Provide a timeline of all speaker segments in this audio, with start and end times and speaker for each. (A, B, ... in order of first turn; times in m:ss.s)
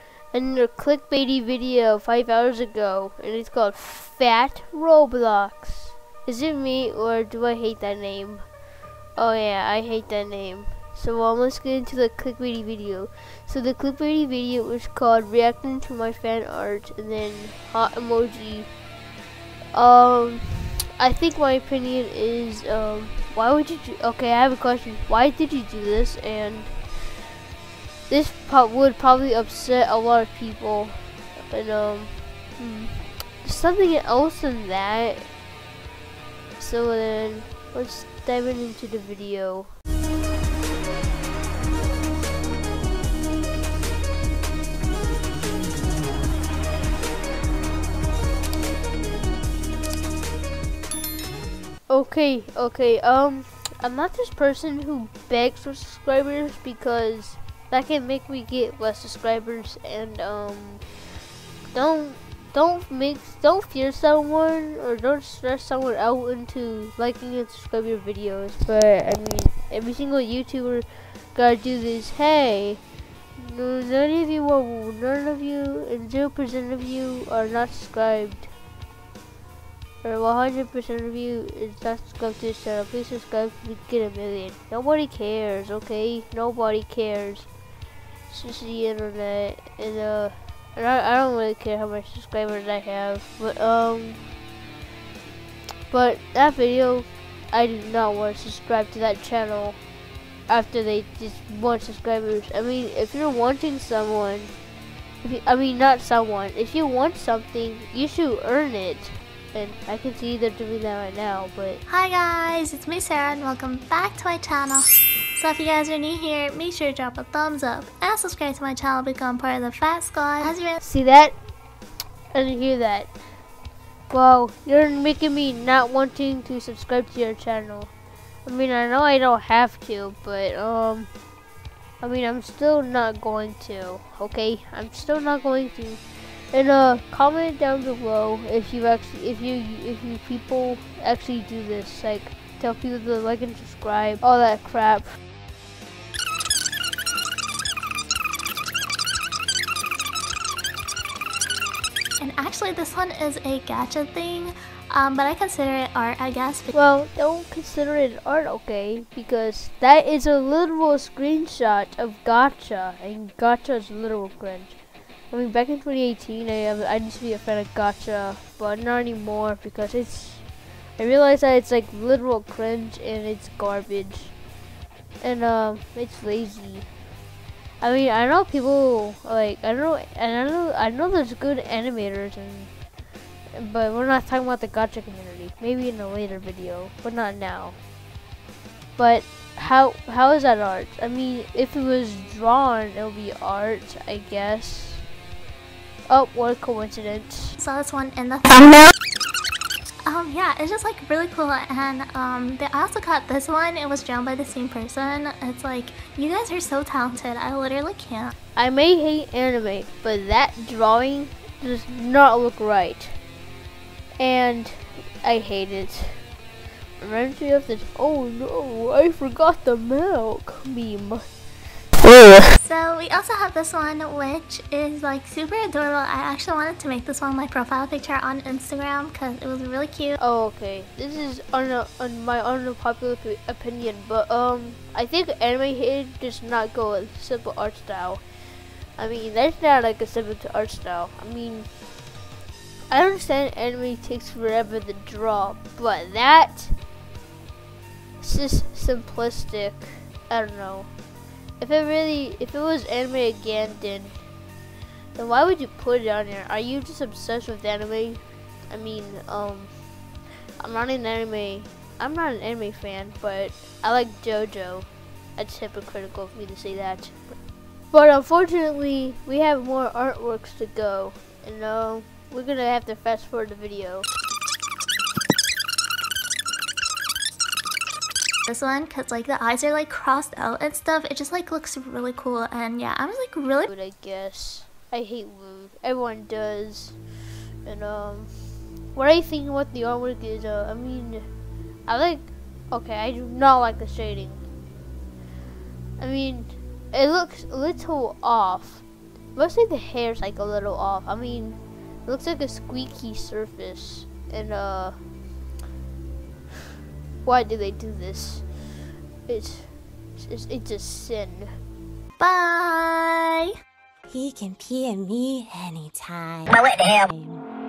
0:00.3-0:08.5 A
0:09.2-0:18.7 A
0:19.7-0:27.3 A
0:28.1-0:35.3 A
0:36.6-0:39.7 A
0:51.9-1:00.8 A
1:01.7-1:12.8 A
1:13.4-1:18.5 A
1:20.0-1:27.5 A
1:28.3-1:34.2 A
1:35.9-1:39.8 A
1:40.5-1:44.6 A
1:45.2-1:51.8 A
1:51.9-2:00.8 B
2:00.8-2:01.3 A
2:02.3-2:03.2 A
2:04.1-2:07.9 A
2:08.4-2:11.1 A
2:12.0-2:25.2 A
2:32.2-2:36.7 B
2:36.7-2:44.8 A
2:45.3-2:54.3 A
2:55.2-2:56.9 A
2:57.8-3:02.7 A
3:03.5-3:07.8 A
3:09.0-3:15.1 A
3:16.1-3:17.6 A
3:17.6-3:18.9 B
3:20.0-3:28.3 B
3:28.5-3:33.2 A
3:34.2-3:36.2 A
3:37.0-3:41.2 A
3:42.6-3:50.1 B
3:50.2-3:58.2 A
3:59.0-4:01.7 A
4:02.9-4:06.8 A
4:08.2-4:10.9 A
4:11.6-4:14.2 A
4:15.1-4:19.7 A
4:20.6-4:27.4 A
4:27.9-4:34.1 A
4:38.5-4:43.7 B
4:43.6-4:47.0 A
4:47.6-4:48.3 A
4:48.9-4:51.2 A
4:51.9-4:54.4 A
4:56.0-5:05.0 A
5:07.2-5:11.5 A
5:12.2-5:13.5 B
5:14.1-5:17.4 C